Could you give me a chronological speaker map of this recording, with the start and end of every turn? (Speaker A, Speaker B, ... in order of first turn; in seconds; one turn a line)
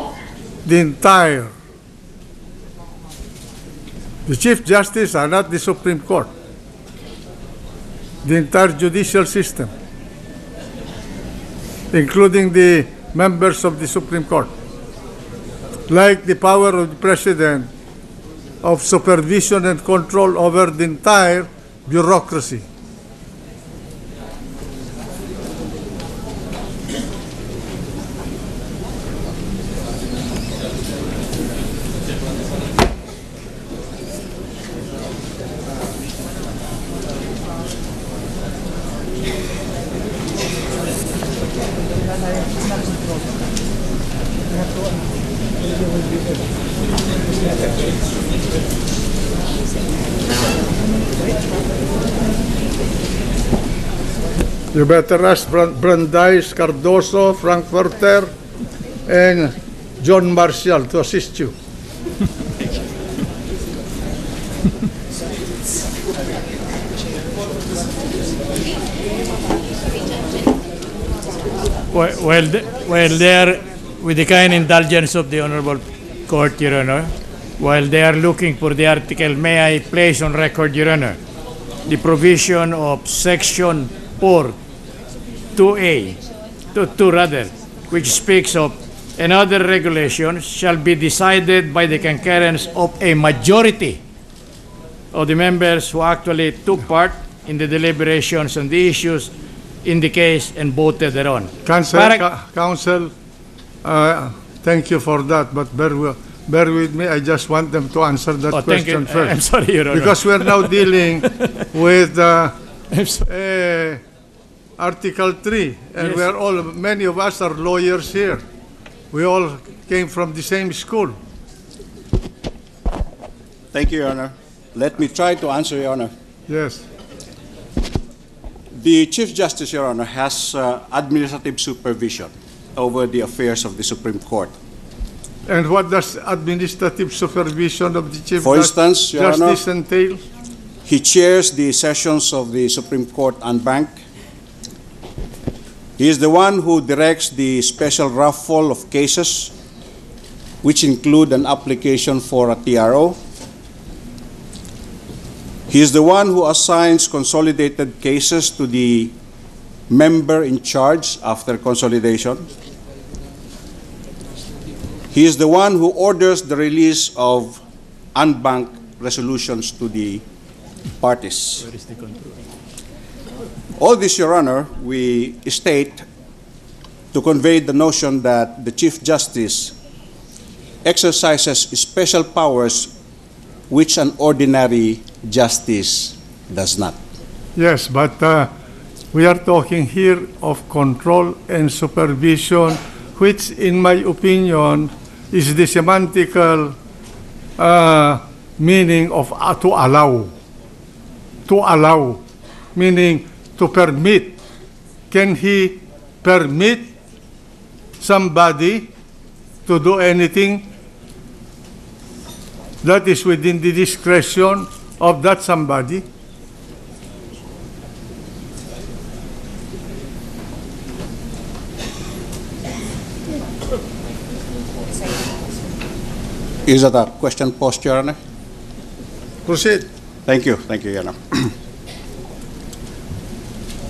Speaker A: 0.6-1.5
Speaker A: 4.3-6.3
Speaker A: 8.2-9.7
Speaker A: 11.9-14.5
Speaker A: 15.9-17.7
Speaker A: 18.6-22.7
Speaker A: 54.7-58.3
Speaker A: 59.1-61.5
Speaker B: 71.9-81.2
Speaker B: 81.9-84.6
Speaker B: 85.6-86.2
Speaker B: 86.8-94.0
Speaker B: 95.1-99.3
Speaker B: 99.8-102.3
Speaker A: 101.6-103.1
Speaker A: 103.8-109.4
Speaker B: 108.5-111.7
Speaker A: 109.9-112.5
Speaker B: 112.9-113.3
Speaker A: 113.2-114.0
Speaker A: 114.8-118.4
Speaker A: 119.1-121.2
Speaker C: 123.7-126.1
Speaker A: 126.5-126.8
Speaker C: 128.8-134.5
Speaker A: 135.5-140.2
Speaker C: 138.4-139.6
Speaker C: 140.9-143.9
Speaker C: 146.0-149.5
Speaker C: 150.6-153.1
Speaker C: 155.7-159.1
Speaker C: 159.9-162.3
Speaker C: 165.1-167.5
Speaker C: 168.2-170.2
Speaker C: 171.0-171.5
Speaker B: 171.7-172.3
Speaker C: 173.8-175.9
Speaker C: 177.1-179.6
Speaker C: 180.9-182.8
Speaker C: 183.7-186.9
Speaker A: 187.6-188.5
Speaker A: 189.1-196.8
Speaker A: 197.6-200.3
Speaker A: 201.5-202.2
Speaker A: 202.8-204.4
Speaker A: 205.1-206.9
Speaker A: 208.0-208.9
Speaker A: 209.7-210.7
Speaker A: 212.8-216.1
Speaker C: 226.7-228.1
Speaker A: 229.5-229.9
Speaker C: 230.3-231.5